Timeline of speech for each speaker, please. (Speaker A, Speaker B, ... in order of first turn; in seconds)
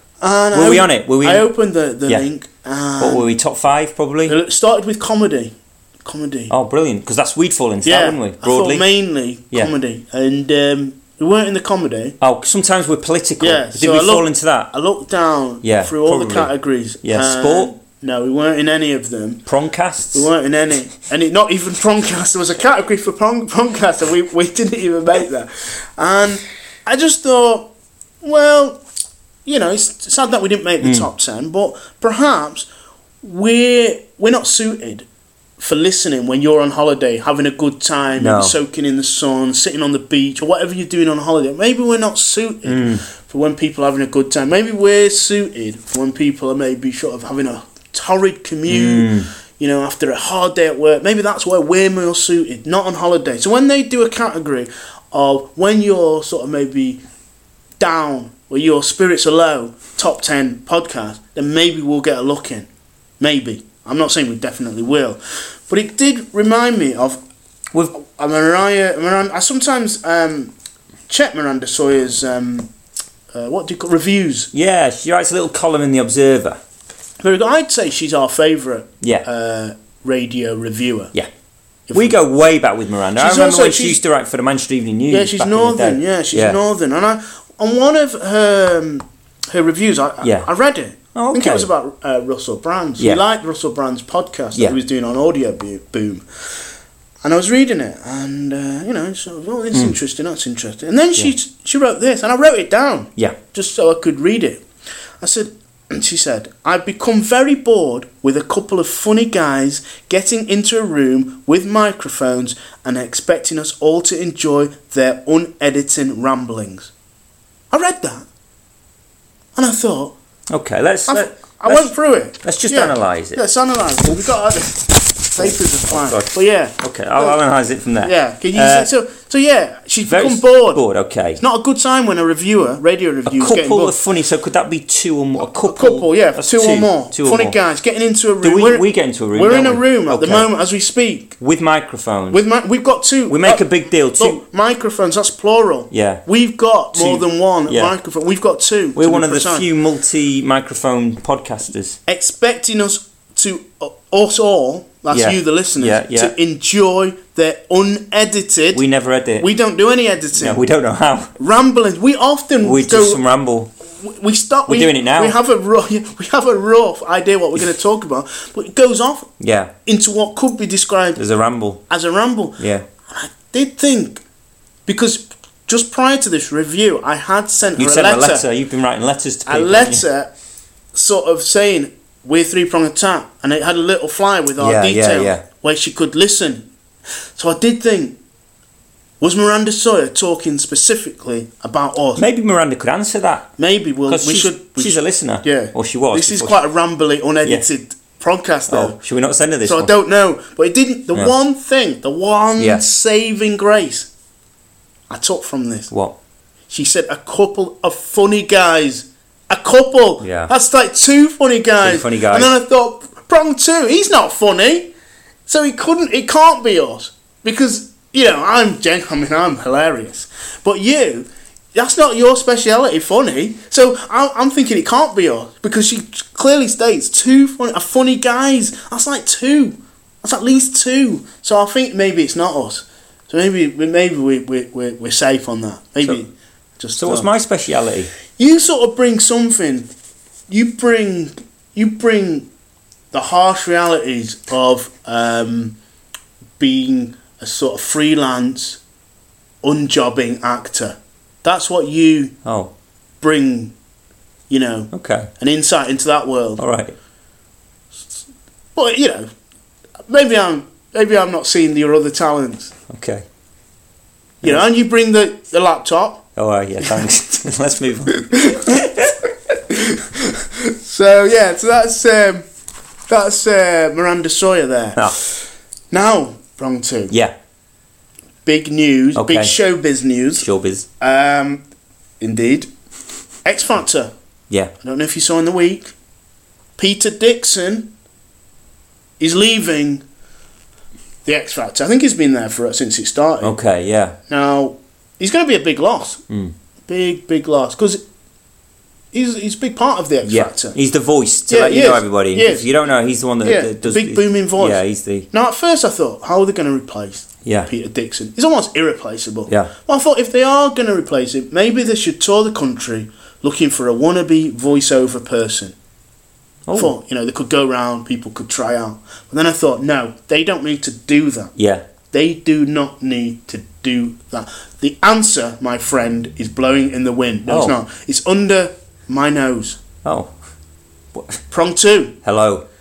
Speaker A: 0.2-3.3, 4.3-6.5, 7.8-12.2, 13.4-19.4, 20.1-27.7, 28.2-28.8, 29.4-32.7, 33.2-35.0, 35.6-57.0, 57.8-62.7, 63.2-67.2, 67.9-70.5, 71.1-72.7, 73.3-74.5, 77.2-81.1, 81.9-82.2, 83.2-84.0, 85.1-96.2, 97.2-104.6, 105.2-116.9, 117.7-118.2, 119.5-120.1, 121.1-127.4, 128.0-130.8, 131.4-134.0, 135.4-141.3, 142.3-143.7, 144.2-149.7, 152.1-158.8, 159.4-160.6, 161.4-163.2, 164.0-169.3, 169.8-171.2, 171.9-174.2, 174.9-178.4, 179.4-180.3, 180.9-186.7, 187.3-188.2, 189.2-192.2, 193.6-199.0, 199.6-204.1, 205.1-205.9, 206.7-214.9, 215.5-237.3, 238.4-239.9, 240.5-242.5, 243.1-245.8, 246.6-248.8, 249.6-252.3, 253.2-253.7, 254.5-256.6, 258.7-259.3, 260.1-262.7, 264.4-266.2, 266.8-267.1, 268.2-269.1, 269.7-272.4, 273.1-275.4, 275.9-277.1, 278.4-280.5, 281.0-281.6, 282.2-282.7, 283.4-284.1, 284.8-285.9, 286.8-287.9, 289.2-290.0, 291.2-293.5, 294.3-296.2, 296.9-298.0, 299.1-300.8, 301.5-302.6, 303.4-315.7, 316.7-321.5, 322.1-329.8, 331.5-332.1
Speaker B: 0.5-1.5, 3.0-4.3, 6.5-8.8, 12.2-14.7, 15.6-16.5, 17.0-17.7, 19.5-20.3, 30.8-31.1, 38.2-38.5, 42.6-43.0, 48.7-49.3, 74.5-76.6, 81.9-86.6, 90.2-90.5, 91.1-91.7, 120.5-121.9, 122.4-123.4, 125.3-128.9, 130.1-131.4, 133.2-137.6, 138.4-140.5, 141.4-142.4, 143.3-144.4, 145.9-146.2, 146.9-147.9, 148.9-152.0, 155.1-156.3, 158.7-159.5, 160.3-161.3, 162.6-163.7, 164.7-165.3, 169.4-169.7, 171.2-171.8, 172.6-172.8, 177.8-180.0, 184.6-185.4, 192.2-193.5, 194.1-196.6, 198.7-199.9, 202.6-202.8, 210.2-210.5, 211.8-212.5, 237.0-238.1, 252.4-252.7, 254.9-255.3, 256.6-256.9, 262.9-263.2, 266.4-269.1, 279.1-279.5, 280.4-280.9, 293.4-294.1, 300.2-305.3, 307.4-307.7, 316.7-316.9, 321.6-321.8, 327.5-327.8, 330.0-330.3, 331.1-331.4, 332.2-332.6